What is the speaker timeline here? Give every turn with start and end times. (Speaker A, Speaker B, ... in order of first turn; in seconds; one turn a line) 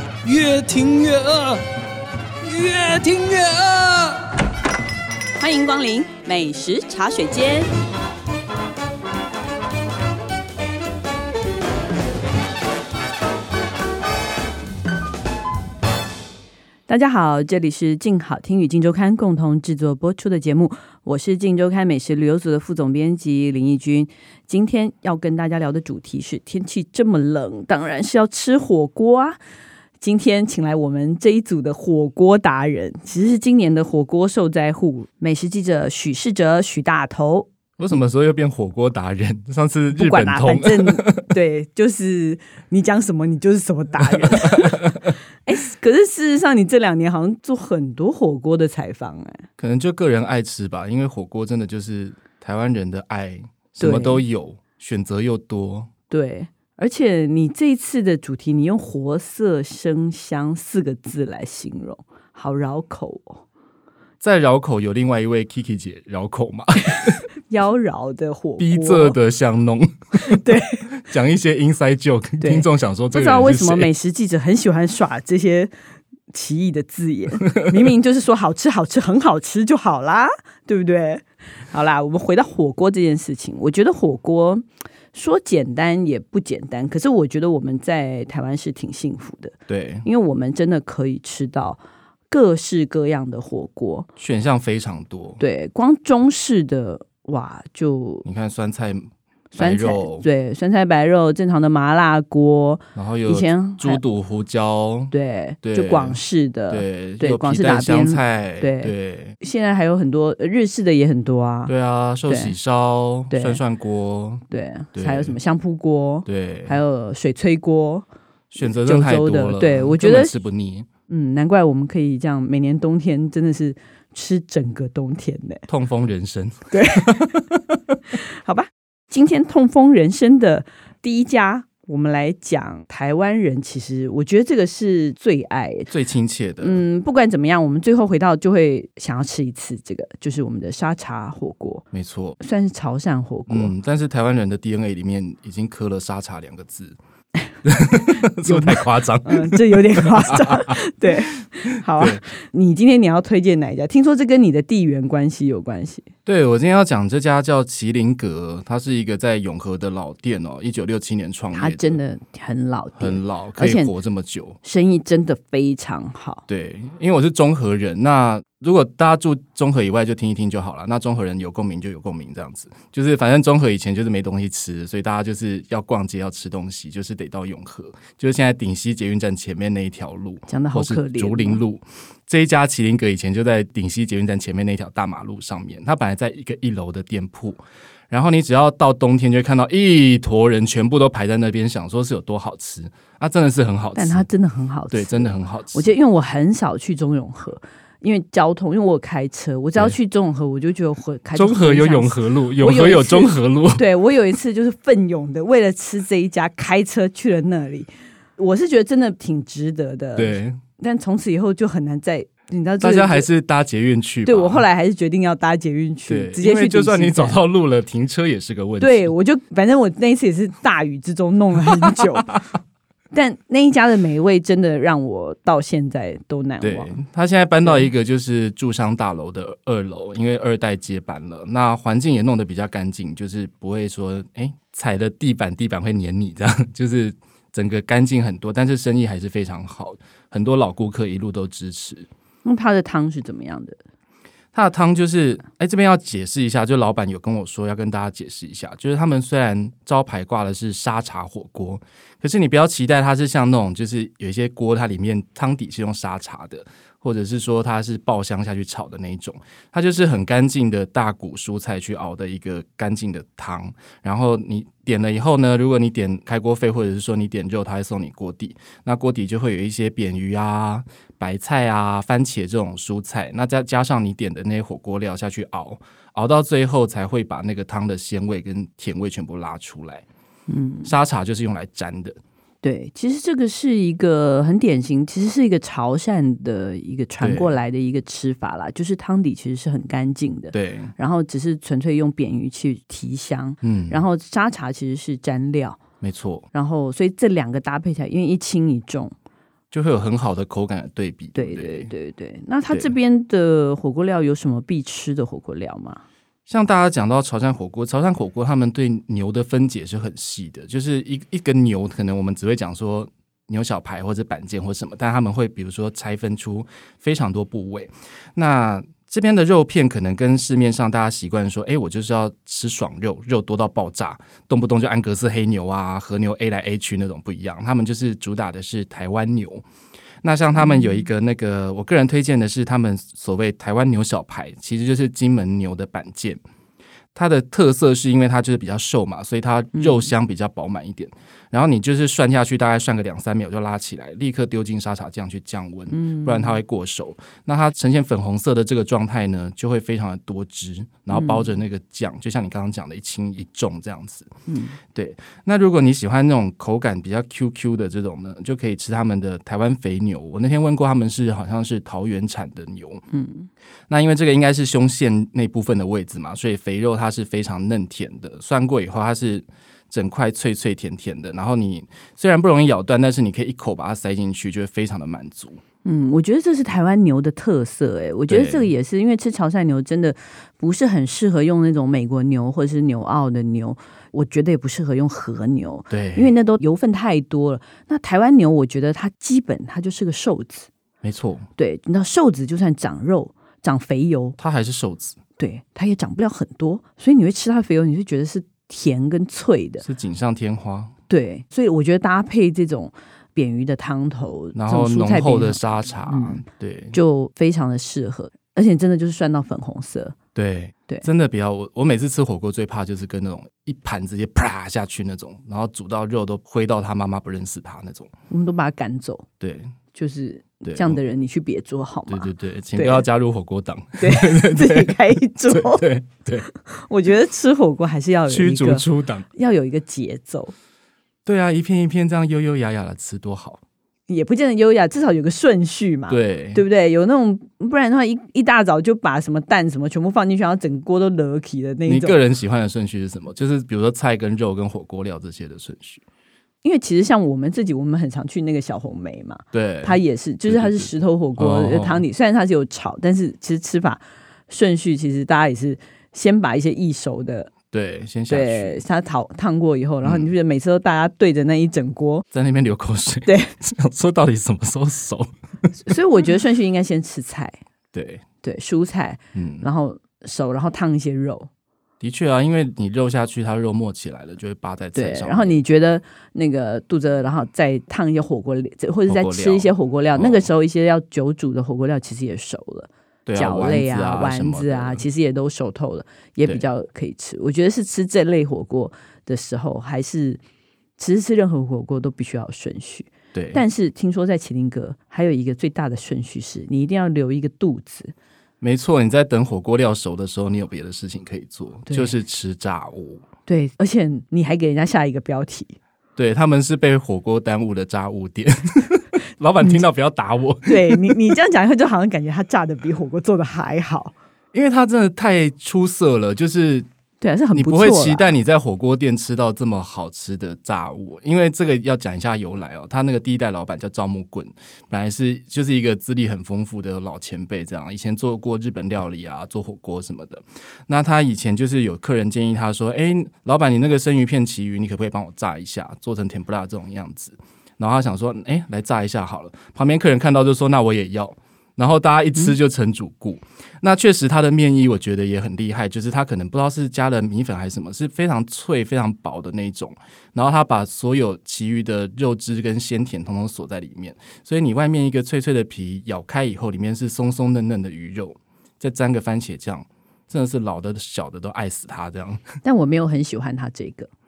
Speaker A: 0.2-1.6
Speaker A: 2.4-4.2
Speaker B: 5.4-7.7
Speaker B: 16.9-29.4
Speaker B: 30.0-37.5
Speaker C: 37.8-41.2
Speaker B: 39.9-49.4
Speaker C: 44.0-45.1
Speaker C: 49.6-55.9
Speaker B: 53.8-54.2
Speaker B: 56.1-63.4
Speaker C: 64.2-67.2
Speaker B: 67.5-69.2
Speaker C: 68.6-73.9
Speaker B: 70.2-70.9
Speaker B: 72.4-75.7
Speaker B: 76.3-94.1
Speaker C: 89.7-90.0
Speaker C: 94.2-95.4
Speaker B: 95.4-98.2
Speaker C: 98.2-100.2
Speaker B: 99.5-104.0
Speaker C: 102.9-106.2
Speaker B: 105.1-111.7
Speaker C: 106.7-109.4
Speaker C: 111.7-114.4
Speaker B: 112.3-112.5
Speaker B: 113.3-113.6
Speaker B: 114.5-118.0
Speaker C: 114.9-115.3
Speaker C: 116.2-116.8
Speaker C: 118.5-120.9
Speaker B: 118.7-120.3
Speaker B: 121.1-125.6
Speaker C: 125.7-127.4
Speaker B: 126.7-127.3
Speaker B: 128.1-135.9
Speaker C: 135.9-136.8
Speaker B: 136.6-141.8
Speaker C: 141.9-142.4
Speaker B: 142.4-143.7
Speaker C: 143.5-147.0
Speaker C: 147.6-152.2
Speaker B: 148.4-156.1
Speaker C: 156.2-162.0
Speaker B: 161.5-163.9
Speaker C: 163.0-164.6
Speaker B: 164.6-166.4
Speaker C: 166.5-194.3
Speaker B: 180.5-181.6
Speaker B: 193.9-213.3
Speaker C: 194.9-195.9
Speaker C: 201.3-203.8
Speaker C: 210.2-210.6
Speaker C: 212.8-214.6
Speaker B: 214.2-217.4
Speaker C: 216.1-219.1
Speaker B: 218.8-222.3
Speaker B: 223.1-227.0
Speaker C: 226.6-242.1
Speaker B: 227.6-227.9
Speaker B: 242.4-243.8
Speaker C: 244.5-280.0
Speaker B: 280.5-280.9
Speaker C: 280.8-282.2
Speaker B: 282.6-295.8
Speaker C: 287.2-287.5
Speaker C: 290.5-290.9
Speaker C: 293.6-294.0
Speaker C: 296.0-296.5
Speaker B: 296.5-299.1
Speaker C: 299.7-301.9
Speaker B: 301.3-306.0
Speaker C: 306.5-329.6
Speaker C: 330.2-336.4
Speaker B: 330.6-331.1
Speaker C: 337.1-354.3
Speaker B: 339.7-340.1
Speaker B: 345.9-346.6
Speaker B: 351.1-351.5
Speaker B: 354.5-354.8
Speaker C: 354.9-363.0
Speaker B: 363.1-363.5
Speaker C: 363.9-375.6
Speaker B: 375.8-390.7
Speaker C: 378.3-378.7
Speaker C: 385.9-386.3
Speaker C: 391.0-391.4
Speaker B: 391.6-394.4
Speaker C: 394.4-395.2
Speaker B: 395.4-399.8
Speaker C: 399.8-400.9
Speaker B: 401.1-410.1
Speaker C: 404.5-407.0
Speaker C: 410.3-418.1
Speaker B: 418.3-419.3
Speaker C: 419.4-419.7
Speaker B: 419.9-423.1
Speaker C: 420.6-421.0
Speaker C: 422.1-426.5
Speaker B: 424.0-425.9
Speaker B: 426.5-430.5
Speaker C: 428.3-429.2
Speaker C: 431.2-433.6
Speaker B: 434.1-442.2
Speaker C: 436.1-436.6
Speaker C: 441.9-446.0
Speaker B: 446.6-457.5
Speaker C: 449.5-452.0
Speaker C: 457.7-458.8
Speaker B: 458.3-462.2
Speaker C: 460.0-460.3
Speaker C: 462.3-465.3
Speaker B: 463.2-463.5
Speaker B: 465.8-467.6
Speaker C: 467.9-468.2
Speaker B: 468.4-471.5
Speaker C: 469.3-469.6
Speaker C: 472.0-475.6
Speaker B: 474.9-490.4
Speaker C: 479.1-480.4
Speaker C: 483.2-485.0
Speaker B: 491.0-498.1
Speaker C: 493.3-493.6
Speaker C: 498.6-503.2
Speaker B: 501.9-502.1
Speaker B: 503.5-505.8
Speaker C: 506.1-511.2
Speaker B: 510.6-514.1
Speaker C: 514.5-516.9
Speaker B: 517.2-518.3
Speaker C: 517.5-562.5
Speaker B: 562.6-564.1